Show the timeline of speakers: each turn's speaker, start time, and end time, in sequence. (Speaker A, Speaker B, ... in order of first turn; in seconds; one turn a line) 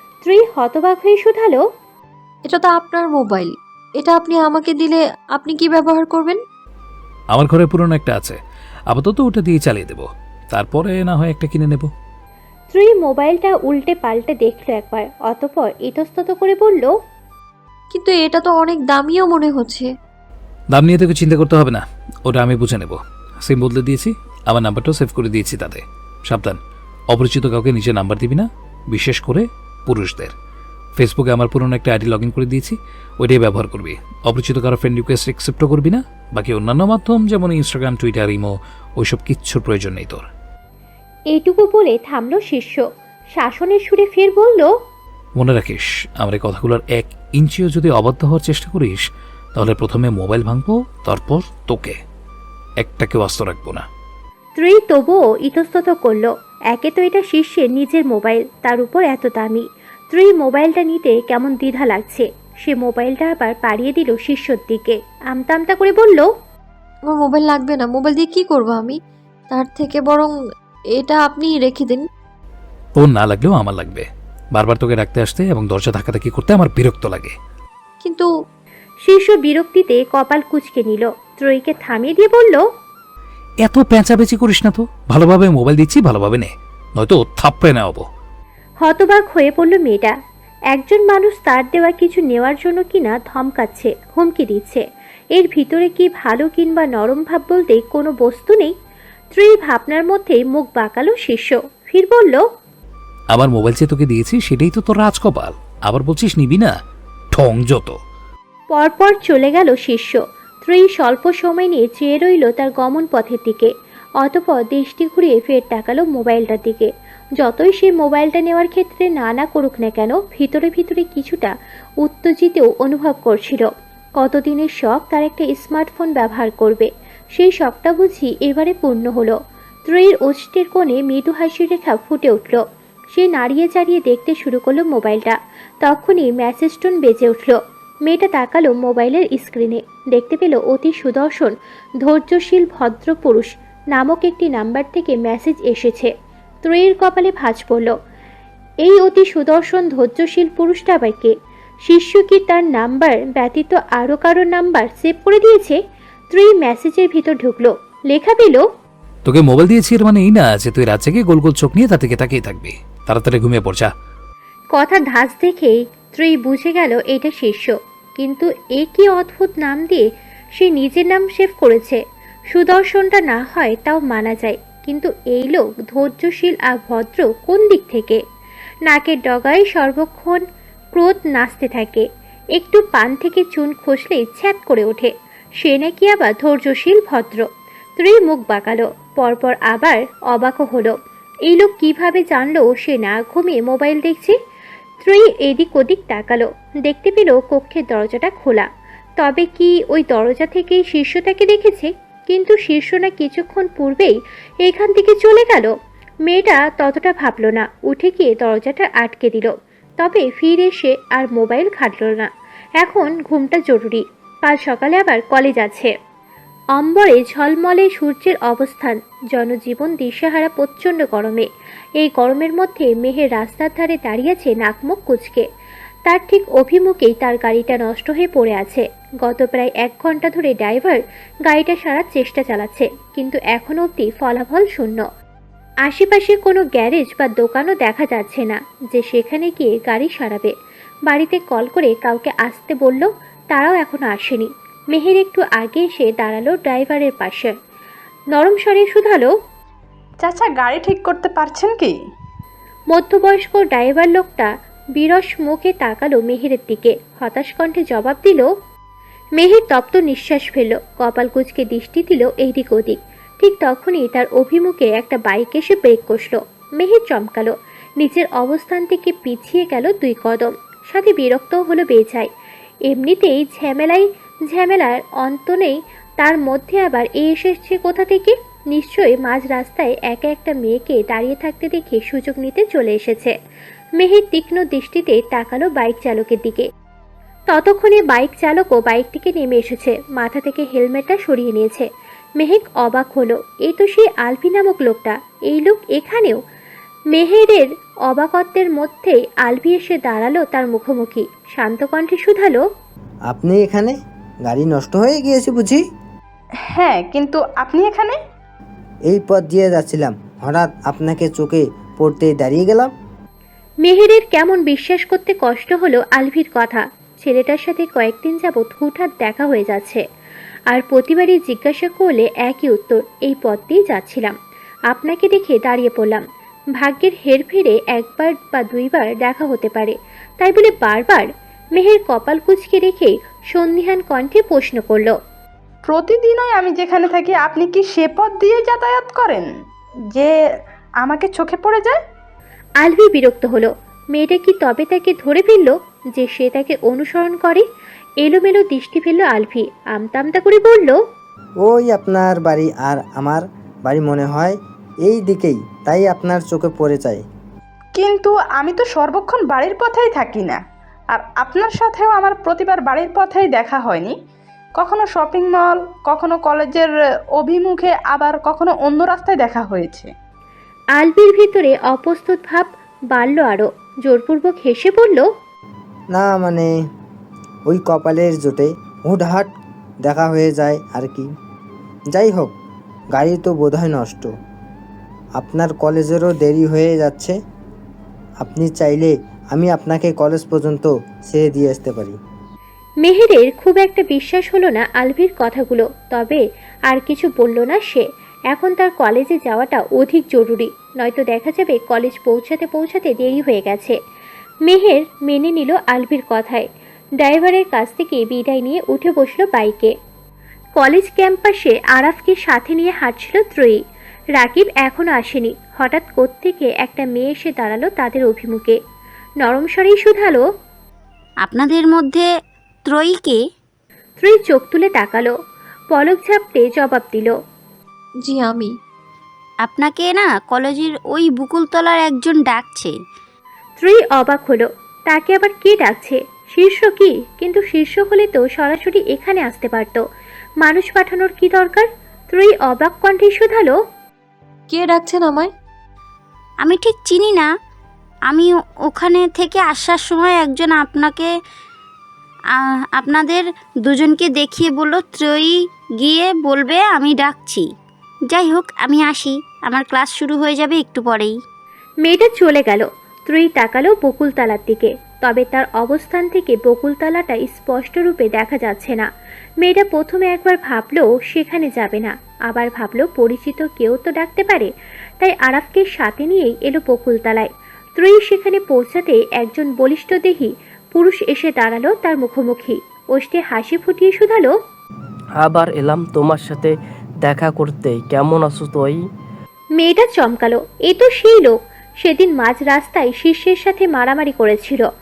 Speaker A: 0.2-1.6
Speaker B: 2.5-6.4
Speaker C: 7.3-8.4
Speaker C: 8.9-11.9
Speaker A: 12.7-16.9
Speaker B: 17.9-19.9
Speaker C: 20.7-26.6
Speaker C: 27.1-30.3
Speaker C: 31.0-40.2
Speaker A: 41.3-42.8
Speaker A: 43.3-44.7
Speaker C: 45.4-49.0
Speaker C: 49.5-52.0
Speaker C: 52.8-53.8
Speaker A: 54.6-66.3
Speaker B: 67.1-69.0
Speaker B: 69.5-70.3
Speaker B: 70.9-72.0
Speaker C: 73.0-77.3
Speaker B: 78.0-78.3
Speaker A: 79.0-82.6
Speaker C: 83.6-88.0
Speaker A: 88.8-90.1
Speaker A: 90.7-94.8
Speaker A: 95.3-98.7
Speaker A: 99.3-102.4
Speaker C: 103.3-106.7
Speaker C: 107.3-108.0
Speaker A: 108.7-113.7
Speaker A: 114.2-132.6
Speaker A: 133.1-146.1
Speaker A: 146.6-147.9
Speaker A: 148.8-155.8
Speaker A: 156.3-158.6
Speaker C: 159.2-163.9
Speaker A: 164.7-178.2
Speaker A: 178.9-180.4
Speaker A: 180.9-187.5
Speaker A: 188.0-194.3
Speaker A: 195.0-198.7
Speaker A: 199.2-205.7
Speaker A: 206.3-215.9
Speaker A: 216.7-221.5
Speaker A: 222.0-225.4
Speaker A: 226.1-235.0
Speaker A: 235.8-240.5
Speaker A: 241.1-247.5
Speaker A: 248.3-249.3
Speaker D: 250.2-251.9
Speaker A: 252.9-258.5
Speaker A: 259.4-272.3
Speaker A: 272.9-283.3
Speaker A: 284.0-286.7
Speaker A: 287.5-291.9
Speaker A: 292.4-296.4
Speaker A: 297.1-302.6
Speaker E: 303.3-305.8
Speaker D: 306.7-308.1
Speaker E: 309.1-312.9
Speaker A: 313.8-320.0
Speaker A: 320.7-324.3
Speaker A: 324.9-326.2
Speaker A: 326.8-335.1
Speaker D: 335.9-339.5
Speaker D: 341.0-342.0
Speaker A: 342.8-347.6
Speaker A: 348.2-351.0
Speaker E: 351.6-357.2
Speaker D: 357.9-360.6
Speaker D: 361.1-364.1
Speaker D: 364.8-370.1
Speaker A: 370.9-375.3
Speaker E: 376.1-376.7
Speaker E: 377.7-379.5
Speaker E: 380.0-381.3
Speaker E: 382.1-382.5
Speaker E: 383.1-384.3
Speaker E: 385.4-387.3
Speaker E: 388.4-392.2
Speaker A: 393.0-403.9
Speaker A: 404.7-406.7
Speaker A: 407.2-409.9
Speaker A: 410.8-413.8
Speaker A: 414.4-418.8
Speaker A: 419.4-420.4
Speaker F: 421.4-422.3
Speaker F: 422.9-423.4
Speaker A: 424.2-425.3
Speaker A: 425.9-427.3
Speaker B: 428.2-428.7
Speaker F: 429.6-433.0
Speaker A: 433.8-440.0
Speaker A: 440.6-443.7
Speaker B: 444.7-445.5
Speaker F: 446.6-447.5
Speaker F: 448.3-451.3
Speaker F: 452.5-457.7
Speaker F: 458.3-461.4
Speaker A: 462.0-469.1
Speaker A: 469.6-484.5
Speaker G: 485.4-489.0
Speaker A: 489.8-494.9